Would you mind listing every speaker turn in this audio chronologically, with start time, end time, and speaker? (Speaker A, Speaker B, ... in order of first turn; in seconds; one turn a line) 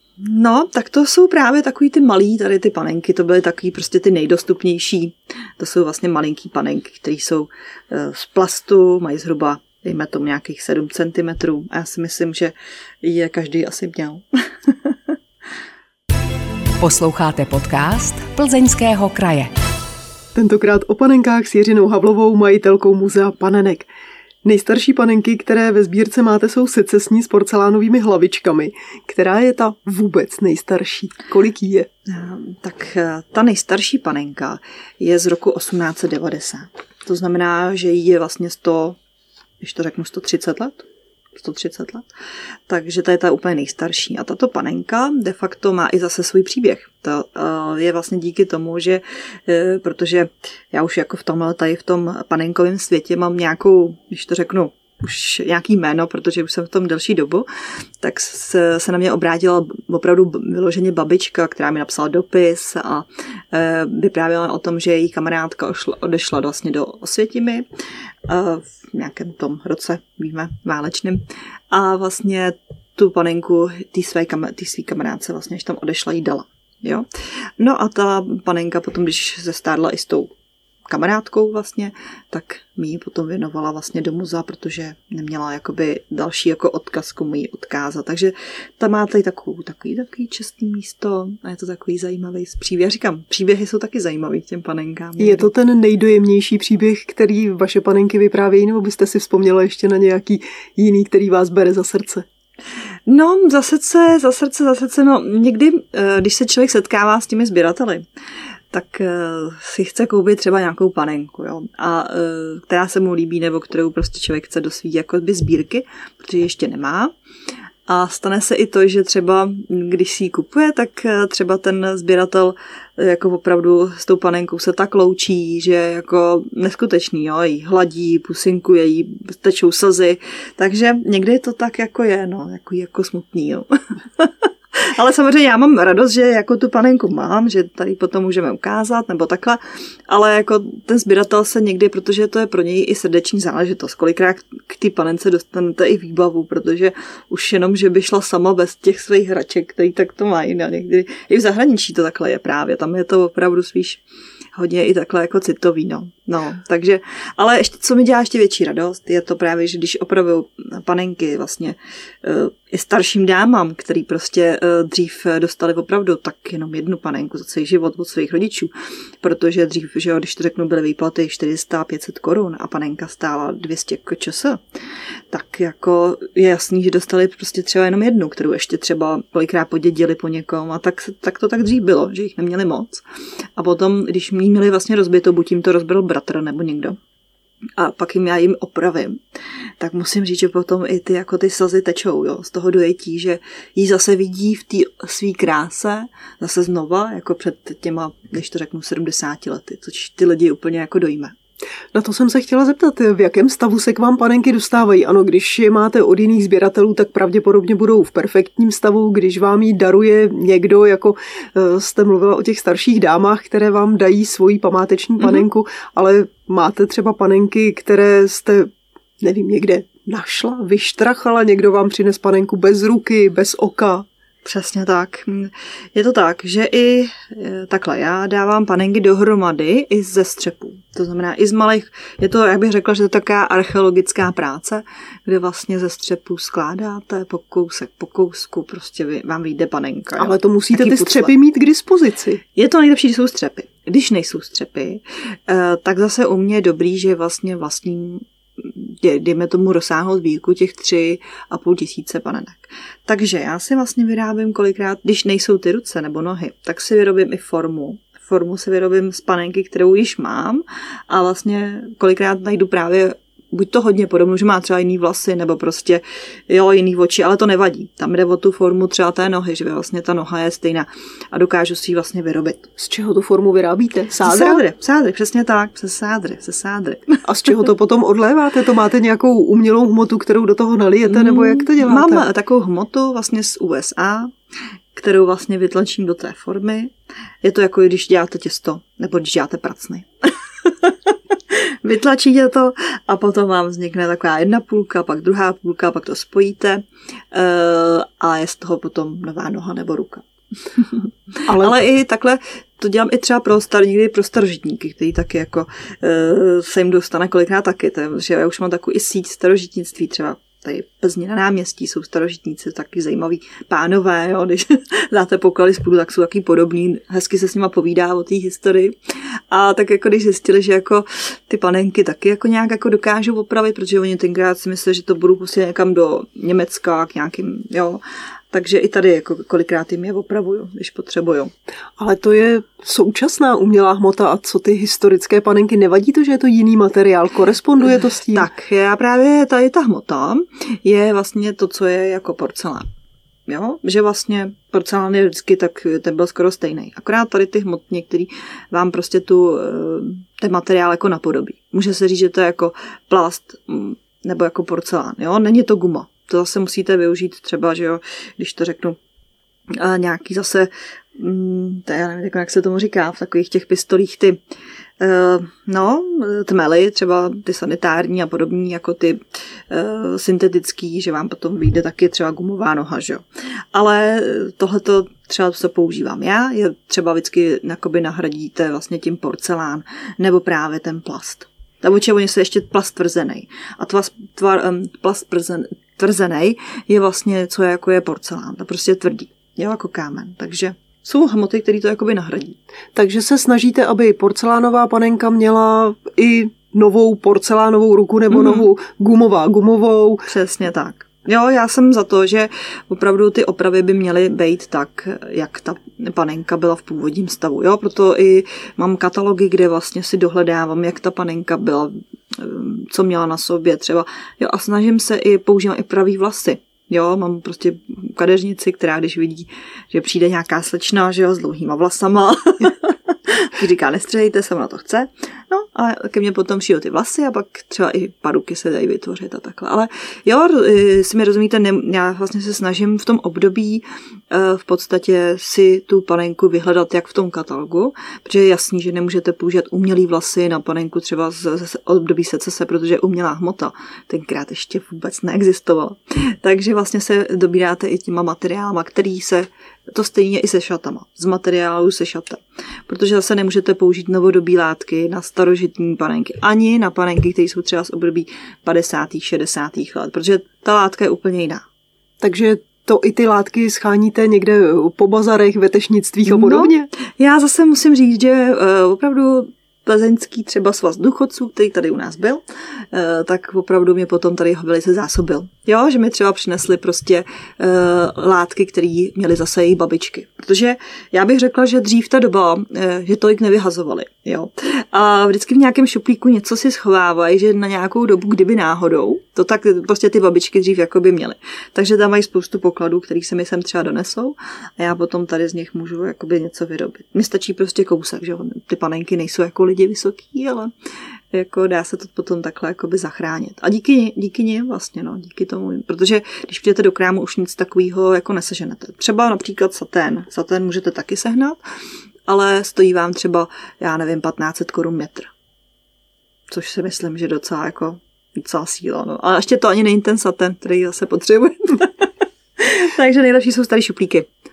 Speaker A: 0.2-15.0
Speaker B: 16.8-19.5
Speaker C: 20.3-23.9
Speaker C: 24.4-31.9
Speaker A: 32.1-39.0
Speaker A: 39.6-42.1
Speaker A: 42.7-57.5
Speaker A: 58.0-67.6
Speaker A: 68.3-77.0
Speaker A: 77.6-80.3
Speaker A: 80.9-95.5
Speaker C: 95.2-102.2
Speaker A: 103.1-108.0
Speaker A: 108.7-117.1
Speaker A: 117.9-154.0
Speaker A: 154.5-174.6
Speaker A: 175.3-183.0
Speaker A: 183.6-187.0
Speaker A: 187.8-189.2
Speaker A: 189.8-201.3
Speaker C: 201.9-224.1
Speaker A: 224.4-241.3
Speaker C: 240.2-242.4
Speaker A: 242.5-272.7
Speaker C: 272.8-274.6
Speaker A: 274.2-277.2
Speaker C: 277.2-282.2
Speaker A: 281.1-284.3
Speaker A: 284.9-318.9
Speaker C: 301.5-301.8
Speaker A: 319.5-331.5
Speaker C: 332.0-338.5
Speaker A: 338.3-342.9
Speaker A: 343.5-359.0
Speaker A: 359.7-364.4
Speaker A: 365.0-373.2
Speaker A: 373.7-392.6
Speaker C: 392.9-400.3
Speaker A: 398.3-398.7
Speaker A: 400.2-461.6
Speaker C: 462.2-466.9
Speaker A: 466.3-500.7
Speaker A: 501.3-511.6
Speaker A: 512.3-515.3
Speaker A: 516.5-524.3